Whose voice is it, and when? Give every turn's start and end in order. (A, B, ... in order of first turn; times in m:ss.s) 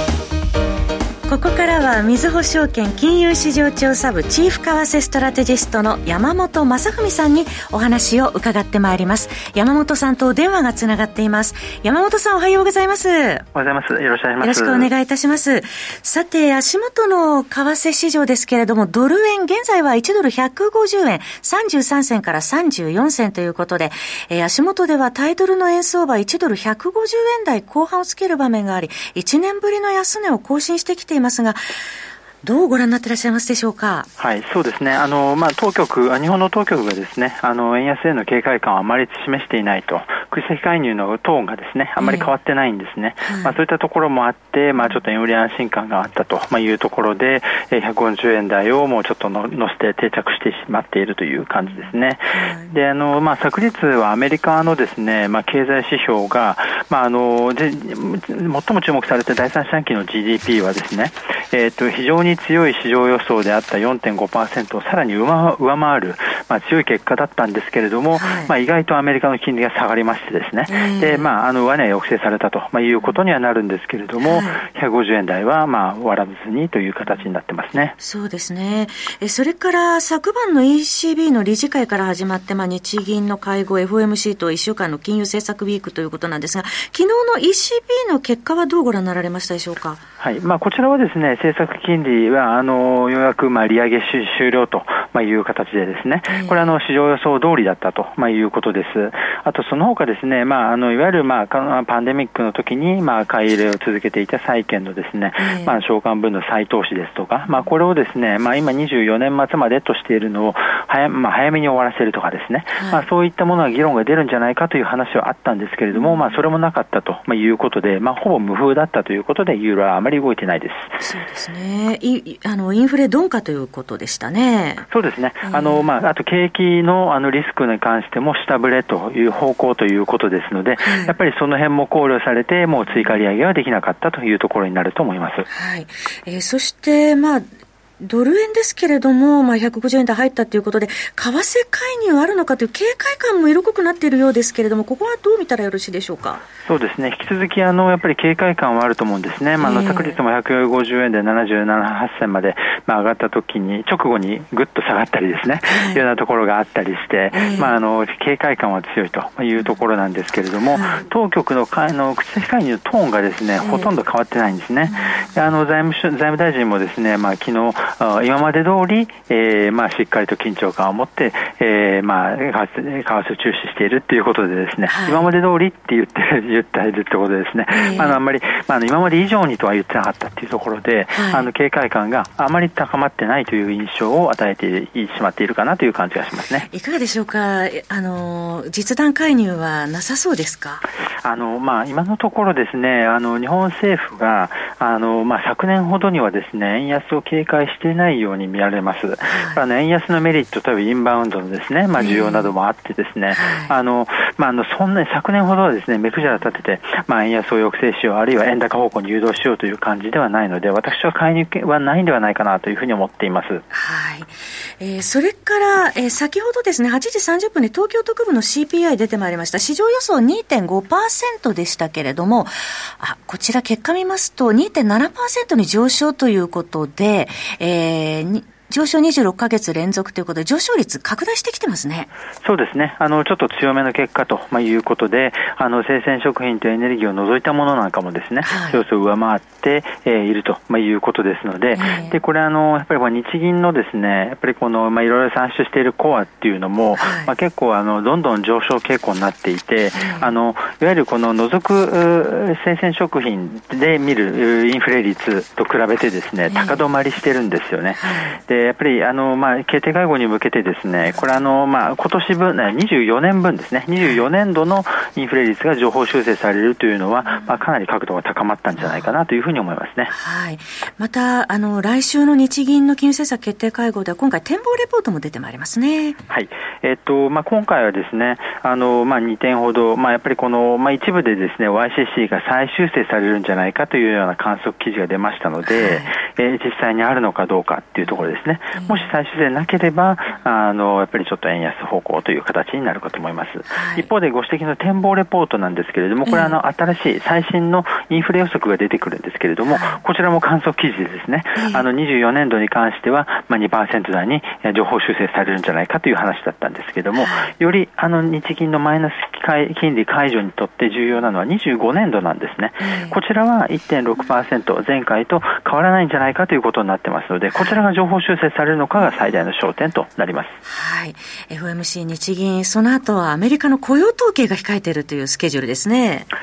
0:01.3-0:13.5 A
0:13.5-0:14.9 B
0:14.4-0:31.6 A
0:32.4-0:34.1 A
0:34.2-1:18.0 B
0:42.0-0:42.3 A
0:43.2-0:43.6 A
0:51.7-0:52.7 A
1:08.1-1:08.5 A
1:10.7-1:11.3 A
1:14.2-1:14.6 A
1:18.0-1:30.0 A
1:30.2-2:01.0 B
1:36.3-1:36.8 A
1:45.4-1:45.8 A
1:52.8-1:53.1 A
1:55.9-1:56.4 A
2:01.0-2:04.9 A
2:04.9-2:15.5 B
2:05.4-2:05.9 A
2:10.8-2:11.2 A
2:15.5-2:17.5 A
2:18.0-2:26.4 A
2:26.6-3:06.7 B
2:29.6-2:30.2 A
2:35.6-2:36.0 A
2:37.3-2:37.8 A
2:40.7-2:41.1 A
2:43.6-2:43.9 A
2:54.9-2:55.3 A
2:57.7-2:58.2 A
3:01.1-3:01.5 A
3:06.6-3:10.9 A
3:11.2-3:33.6 B
3:19.3-3:19.6 A
3:22.0-3:22.5 A
3:23.3-3:23.7 A
3:33.7-3:52.1 A
3:52.4-4:30.1 B
3:58.4-3:58.8 A
4:01.7-4:02.2 A
4:07.0-4:07.3 A
4:10.0-4:10.4 A
4:16.5-4:16.8 A
4:18.0-4:18.4 A
4:21.2-4:21.4 A
4:28.8-4:29.1 A
4:30.1-4:36.2 A
4:36.3-5:20.6 B
4:45.6-4:46.1 A
4:48.0-4:49.1 A
4:53.7-4:54.1 A
4:56.3-4:56.6 A
4:59.6-5:00.0 A
5:01.6-5:01.9 A
5:07.1-5:07.5 A
5:12.8-5:13.2 A
5:17.6-5:17.8 A
5:20.6-5:26.3 A